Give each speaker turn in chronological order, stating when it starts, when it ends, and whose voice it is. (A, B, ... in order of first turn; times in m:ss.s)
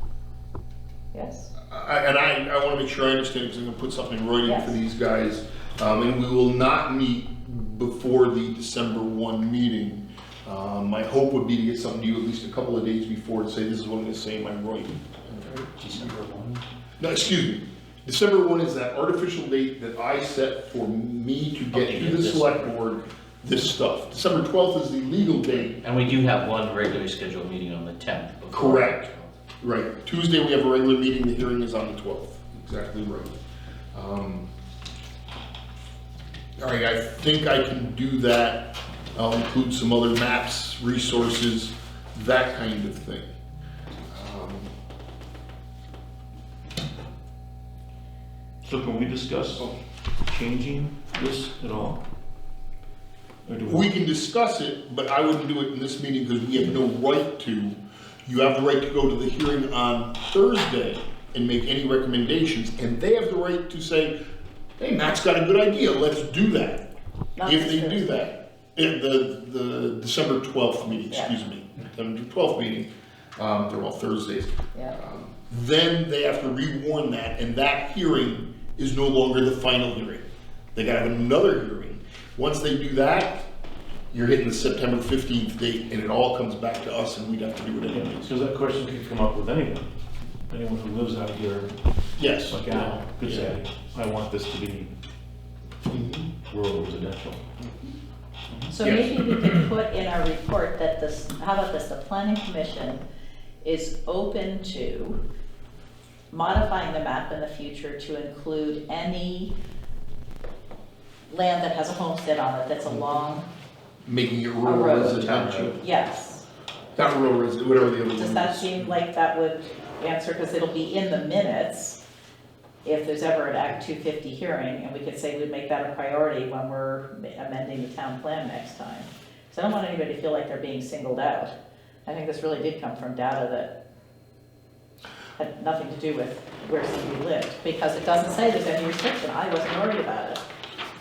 0:01.1-0:01.5 A
0:01.7-0:16.0 B
0:04.4-0:04.7 A
0:15.8-0:16.6 C
0:16.0-0:16.5 D
0:17.0-0:25.8 B
0:21.7-0:22.8 C
0:25.8-0:29.3 C
0:28.5-0:29.1 B
0:29.6-0:33.4 B
0:33.9-0:34.5 B
0:36.6-0:43.3 B
0:44.1-0:44.7 B
0:48.6-0:49.7 D
0:50.3-0:52.0 D
0:53.4-0:53.8 D
0:53.6-1:04.1 B
1:04.8-1:06.8 B
1:07.4-1:08.1 A
1:07.4-1:20.2 B
1:11.1-1:11.4 A
1:20.7-1:23.4 B
1:24.1-1:28.3 B
1:27.9-1:29.9 D
1:30.5-1:31.7 D
1:32.2-1:33.5 B
1:32.5-1:34.9 D
1:35.9-1:36.3 B
1:36.5-1:37.4 D
1:38.7-1:43.0 A
1:38.8-1:39.7 B
1:43.6-1:45.2 A
1:46.3-1:49.5 A
1:51.3-1:53.4 A
1:54.0-1:55.8 B
1:54.6-1:56.4 A
1:57.0-1:58.9 B
1:58.2-2:02.0 A
2:02.8-2:11.5 A
2:12.0-2:13.7 A
2:15.4-2:20.4 A